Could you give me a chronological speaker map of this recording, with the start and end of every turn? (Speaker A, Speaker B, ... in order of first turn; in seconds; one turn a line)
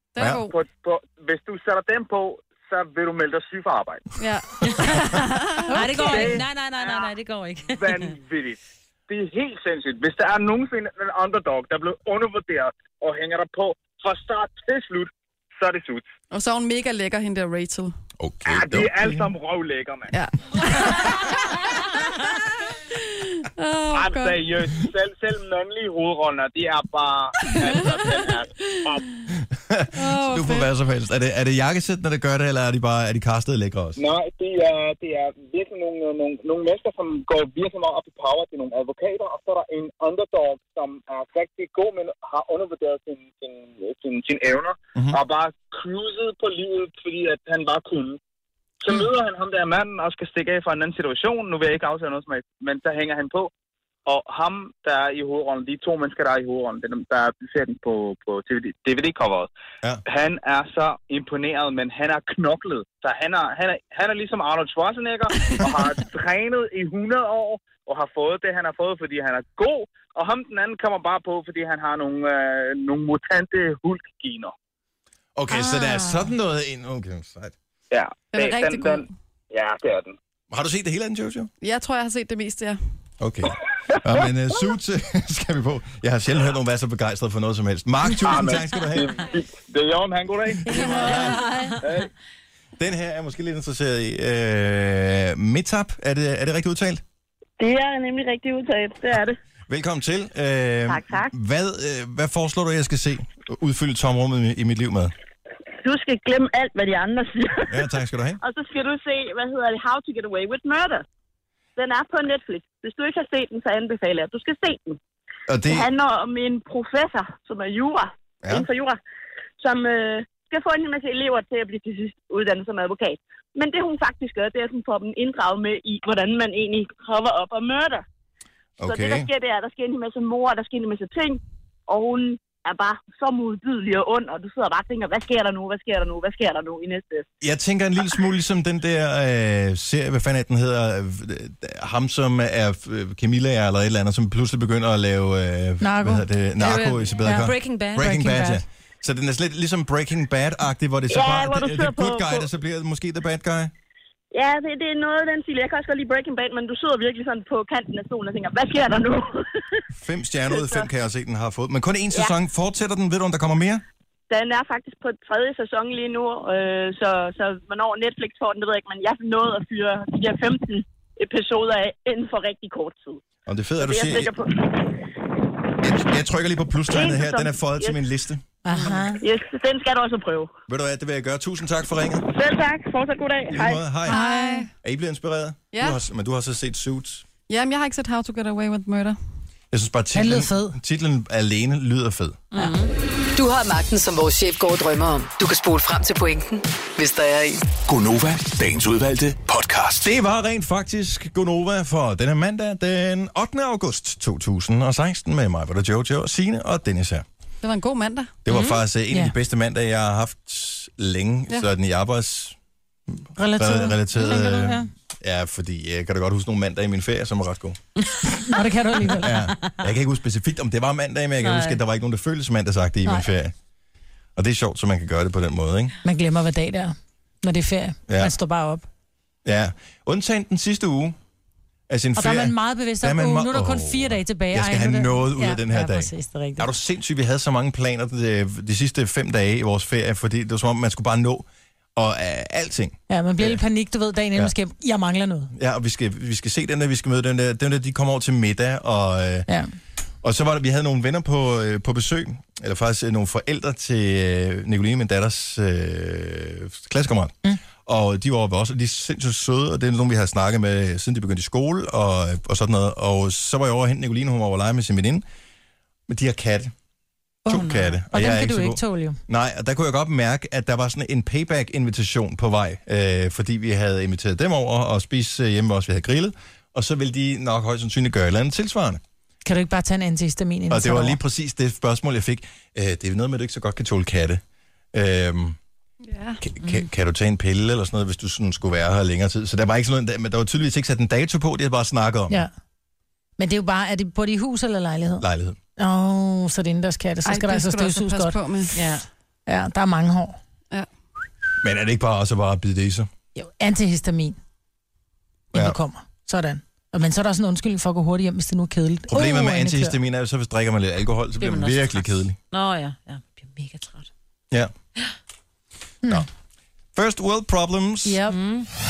Speaker A: 0.1-0.6
Speaker B: 0.4-4.1
Speaker A: 4.2-6.4
Speaker C: 5.7-8.1
Speaker D: 5.7-6.4
Speaker B: 6.0-7.1
Speaker B: 7.7-16.1
Speaker A: 16.3-17.9
Speaker E: 18.2-19.3
Speaker B: 18.4-20.1
Speaker A: 20.1-21.9
Speaker A: 22.9-24.5
Speaker B: 23.9-29.0
Speaker A: 27.5-28.8
Speaker E: 29.4-34.0
Speaker A: 29.9-30.7
Speaker B: 34.0-48.2
Speaker B: 48.8-53.5
Speaker B: 54.0-59.5
Speaker B: 60.0-74.5
Speaker E: 75.3-77.5
Speaker D: 75.5-76.3
Speaker B: 77.9-80.2
Speaker A: 78.3-79.1
Speaker E: 80.5-81.5
Speaker A: 81.6-82.8
Speaker E: 83.2-89.1
Speaker B: 88.2-91.2
Speaker E: 90.7-91.5
Speaker A: 90.7-91.1
Speaker C: 91.4-91.7
Speaker B: 91.8-92.1
Speaker E: 92.8-97.0
Speaker F: 97.6-99.4
Speaker E: 99.7-105.1
Speaker F: 100.9-101.3
Speaker F: 105.8-111.0
Speaker E: 107.7-108.4
Speaker F: 111.8-115.0
Speaker E: 115.5-115.9
Speaker F: 115.7-119.0
Speaker F: 119.6-128.0
Speaker E: 128.8-129.3
Speaker F: 128.8-137.3
Speaker E: 137.4-153.7
Speaker D: 145.8-148.6
Speaker C: 147.2-148.2
Speaker F: 151.1-152.5
Speaker F: 154.3-159.6
Speaker E: 160.0-163.8
Speaker F: 160.5-160.9
Speaker F: 164.3-173.2
Speaker E: 173.4-174.3
Speaker F: 173.8-174.7
Speaker E: 175.8-179.1
Speaker F: 176.9-178.0
Speaker D: 178.6-179.2
Speaker F: 179.2-180.5
Speaker E: 180.7-182.2
Speaker F: 182.2-183.8
Speaker E: 183.5-184.2
Speaker A: 184.1-184.7
Speaker D: 184.1-184.7
Speaker E: 184.8-187.2
Speaker A: 185.7-186.0
Speaker A: 187.5-189.2
Speaker E: 189.7-192.5
Speaker D: 190.1-190.8
Speaker C: 192.5-192.9
Speaker G: 193.3-197.7
Speaker H: 197.8-200.1
Speaker E: 200.0-207.2
Speaker A: 207.6-208.3
Speaker E: 208.4-212.6
Speaker E: 213.1-217.8
Speaker D: 213.3-214.9
Speaker D: 218.4-219.5
Speaker E: 219.2-223.5
Speaker C: 221.4-221.8
Speaker E: 224.3-225.9
Speaker D: 226.0-228.9
Speaker E: 228.1-228.3
Speaker E: 229.4-231.2
Speaker E: 231.9-243.6
Speaker D: 232.2-236.7
Speaker D: 243.1-245.5
Speaker E: 245.5-249.5
Speaker E: 250.2-265.2
Speaker E: 266.1-266.7
Speaker D: 267.4-269.2
Speaker E: 267.5-279.0
Speaker D: 279.4-281.2
Speaker E: 280.7-284.4
Speaker E: 284.9-285.6
Speaker A: 286.1-286.4
Speaker E: 286.4-292.4
Speaker D: 293.4-295.2
Speaker E: 295.2-295.6
Speaker D: 295.8-298.4
Speaker A: 297.2-298.7
Speaker C: 298.7-299.0
Speaker D: 299.5-300.4
Speaker E: 301.6-303.1
Speaker D: 303.3-304.4
Speaker D: 305.5-309.9
Speaker E: 309.1-312.4
Speaker C: 311.4-314.1
Speaker E: 316.9-318.2
Speaker D: 318.0-318.4
Speaker C: 318.3-318.7